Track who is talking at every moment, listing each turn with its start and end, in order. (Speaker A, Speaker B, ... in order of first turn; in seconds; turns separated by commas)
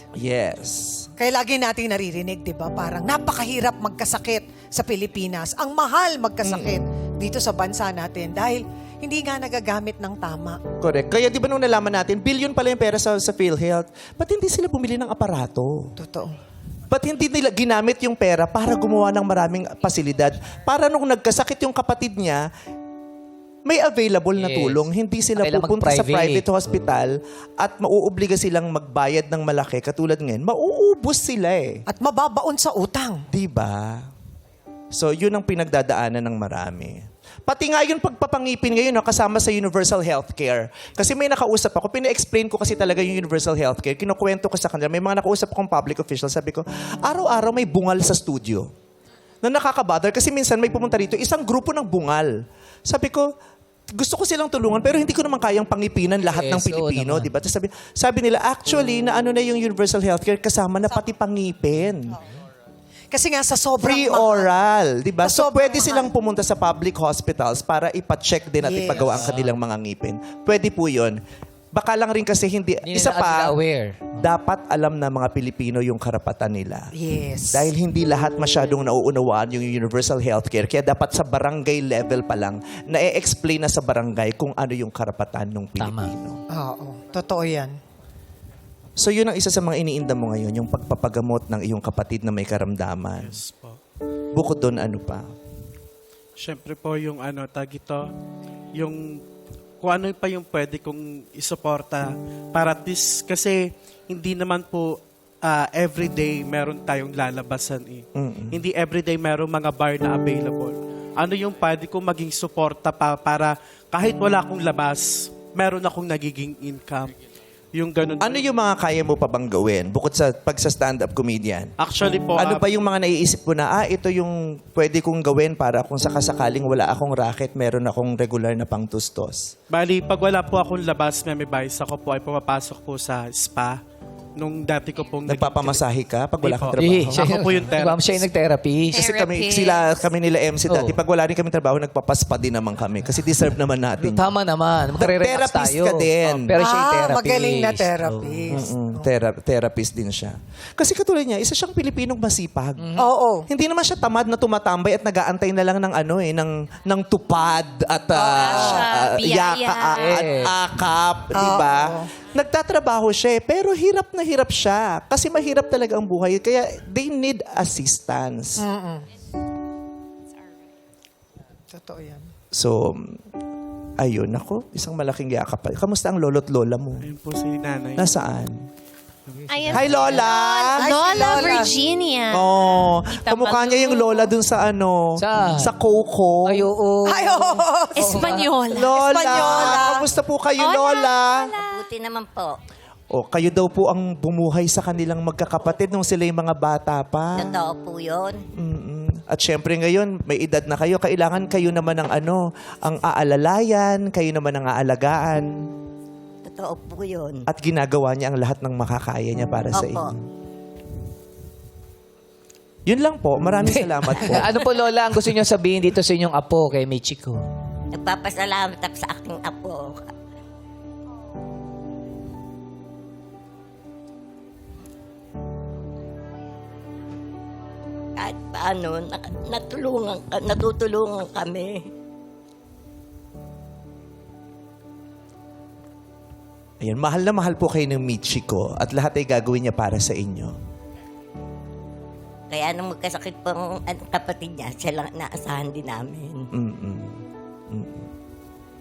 Speaker A: 0.2-1.1, Speaker B: 1.2-10.6, Speaker A: 6.4-6.8, Speaker A: 10.8-16.0, Speaker B: 16.0-16.3, Speaker A: 16.9-22.4, Speaker A: 23.7-31.8, Speaker C: 24.4-24.9, Speaker C: 25.4-26.5, Speaker B: 31.9-33.2, Speaker A: 33.3-34.1, Speaker A: 34.9-48.7, Speaker A: 49.4-52.3, Speaker A: 52.9-53.3, Speaker A: 54.0-62.2, Speaker C: 56.3-57.3, Speaker B: 63.1-64.5, Speaker A: 63.8-71.2, Speaker B: 65.2-66.1, Speaker B: 68.6-69.0, Speaker C: 69.0-69.5, Speaker A: 71.7-73.6, Speaker C: 72.8-74.2, Speaker A: 74.2-76.9, Speaker B: 76.9-77.7, Speaker A: 77.5-86.4, Speaker C: 85.8-86.2, Speaker B: 86.5-87.7, Speaker A: 89.0-93.4, Speaker D: 93.2-93.8, Speaker A: 94.3-95.3, Speaker D: 96.4-98.1, Speaker D: 98.8-99.2, Speaker D: 99.8-117.2, Speaker A: 108.2-108.6, Speaker D: 117.8-118.5, Speaker A: 118.2-121.7, Speaker D: 121.8-122.7, Speaker A: 122.4-129.5, Speaker D: 129.7-133.8, Speaker D: 134.4-135.8, Speaker A: 135.3-137.3, Speaker D: 136.4-138.3, Speaker C: 136.8-139.1, Speaker E: 138.9-139.9, Speaker A: 139.0-144.3, Speaker C: 140.7-141.0, Speaker C: 144.0-148.6, Speaker A: 145.0-146.5, Speaker B: 146.6-149.0, Speaker A: 148.5-152.9, Speaker C: 152.8-153.1, Speaker B: 153.0-153.5, Speaker A: 153.5-168.7, Speaker B: 158.1-158.9, Speaker E: 158.4-160.2, Speaker C: 160.0-160.6, Speaker B: 161.3-162.1, Speaker B: 168.6-169.1, Speaker B: 171.7-172.3, Speaker A: 172.5-173.2, Speaker A: 174.0-177.1, Speaker D: 177.0-178.1, Speaker A: 178.0-178.6, Speaker D: 179.3-179.7, Speaker E: 179.5-182.5, Speaker A: 179.7-180.9, Speaker B: 180.7-181.8, Speaker A: 182.3-186.7, Speaker E: 183.1-184.3, Speaker C: 185.2-185.7, Speaker C: 186.4-188.5, Speaker B: 187.1-190.1, Speaker E: 188.0-189.8, Speaker A: 188.7-191.5, Speaker E: 190.6-191.8, Speaker F: 191.6-192.6, Speaker A: 193.1-197.6, Speaker F: 197.4-198.4, Speaker A: 198.5-205.5, Speaker F: 206.5-207.5, Speaker A: 207.5-210.2, Speaker F: 209.7-210.1, Speaker A: 212.9-214.6, Speaker C: 213.6-217.4, Speaker F: 217.9-220.1, Speaker F: 228.2-231.8, Speaker A: 236.8-240.6, Speaker F: 242.5-246.5, Speaker A: 246.5-248.1